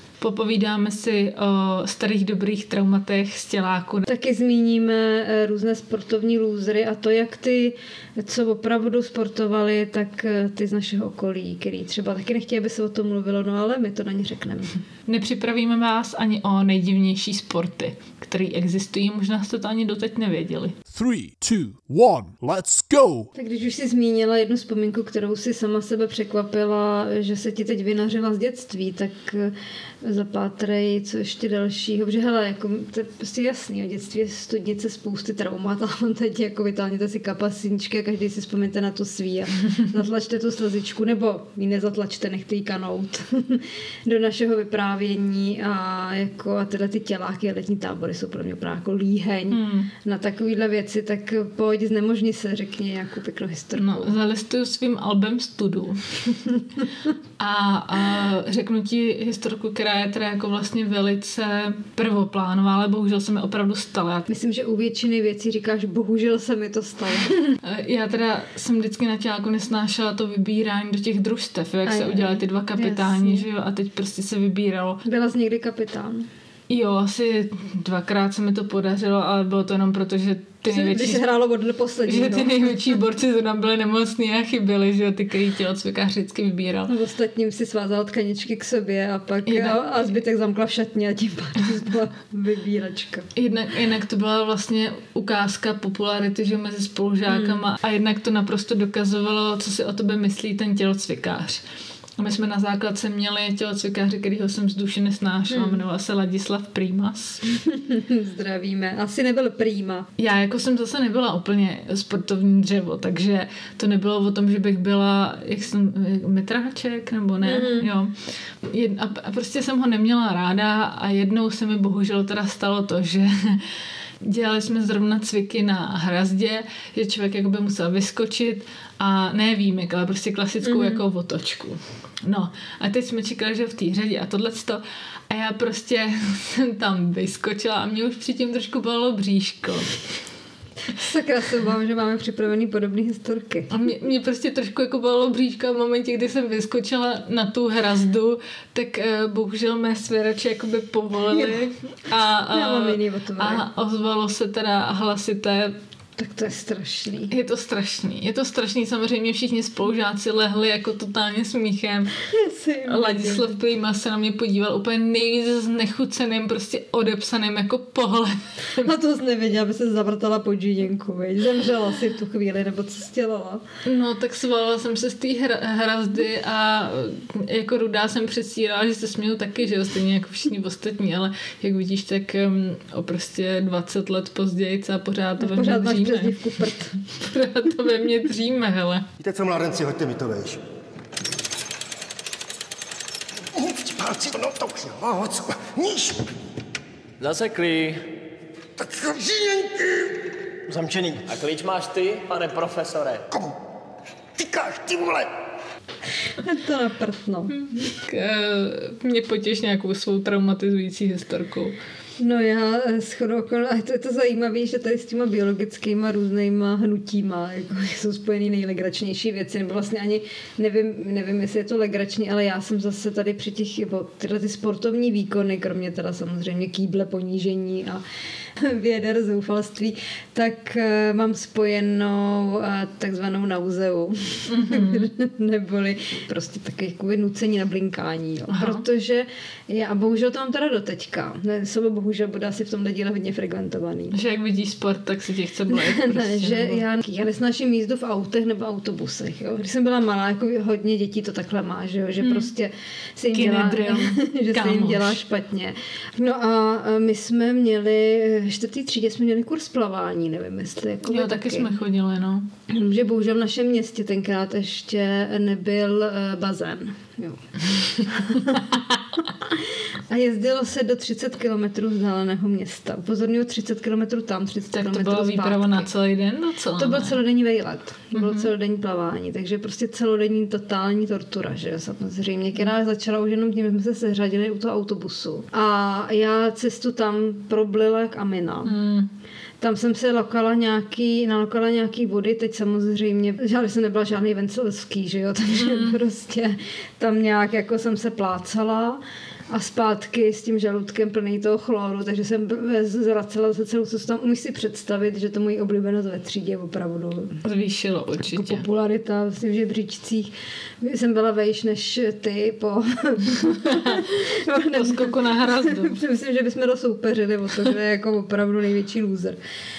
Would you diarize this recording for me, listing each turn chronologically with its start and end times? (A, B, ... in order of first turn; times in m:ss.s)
0:00.2-0:04.0 A
0:04.0-0:14.8 B
0:15.1-0:20.7 A
0:20.9-0:23.3 C
0:23.3-0:54.1 B
0:49.5-0:49.9 A
0:53.7-0:56.4 A
0:57.4-1:04.3 A
1:04.3-1:07.5 B
1:07.6-1:15.0 A
1:11.8-1:13.5 B
1:15.0-1:16.3 B
1:16.7-1:21.2 A
1:20.7-1:22.9 B
1:22.0-1:26.9 A
1:26.9-1:33.3 B
1:29.4-1:29.8 A
1:33.4-1:41.6 A
1:37.3-1:37.6 B
1:42.2-1:47.4 A
1:45.5-1:45.8 B
1:47.5-1:50.1 B
1:50.2-1:58.1 A
1:57.4-1:57.9 B
1:58.6-2:03.6 A
2:04.2-2:20.0 A
2:10.6-2:11.0 B
2:20.9-2:23.7 B
2:23.7-2:35.7 A
2:31.3-2:31.6 B
2:32.5-2:33.6 B
2:36.2-2:37.3 B
2:37.3-2:42.1 A
2:42.2-2:43.6 B
2:42.8-2:48.9 A
2:48.8-2:53.6 B
2:53.8-3:06.4 A
3:05.4-3:07.0 B
3:07.2-3:09.0 A
3:09.2-3:10.6 D
3:13.6-3:16.2 D
3:17.2-3:18.0 E
3:18.8-3:20.1 D
3:20.7-3:23.2 E
3:24.4-3:25.3 D
3:26.4-3:27.6 B
3:27.6-3:31.8 A
3:32.2-3:48.0 B
3:48.6-4:04.2 B
3:54.5-3:55.1 A
3:58.5-3:58.8 A
4:04.1-4:06.8 A
4:05.7-4:21.8 B
4:12.2-4:12.5 A
4:13.3-4:15.2 A
4:21.0-4:22.4 A
4:22.7-4:28.8 B
4:29.4-4:35.9 B
4:34.7-4:37.2 A
4:36.8-4:48.8 B
4:38.1-4:38.5 A
4:48.6-4:49.1 A
4:49.6-5:07.4 B
4:55.5-4:56.0 A
5:07.4-5:08.6 A
5:08.3-5:19.4 B
5:13.5-5:14.0 A
5:14.7-5:16.0 A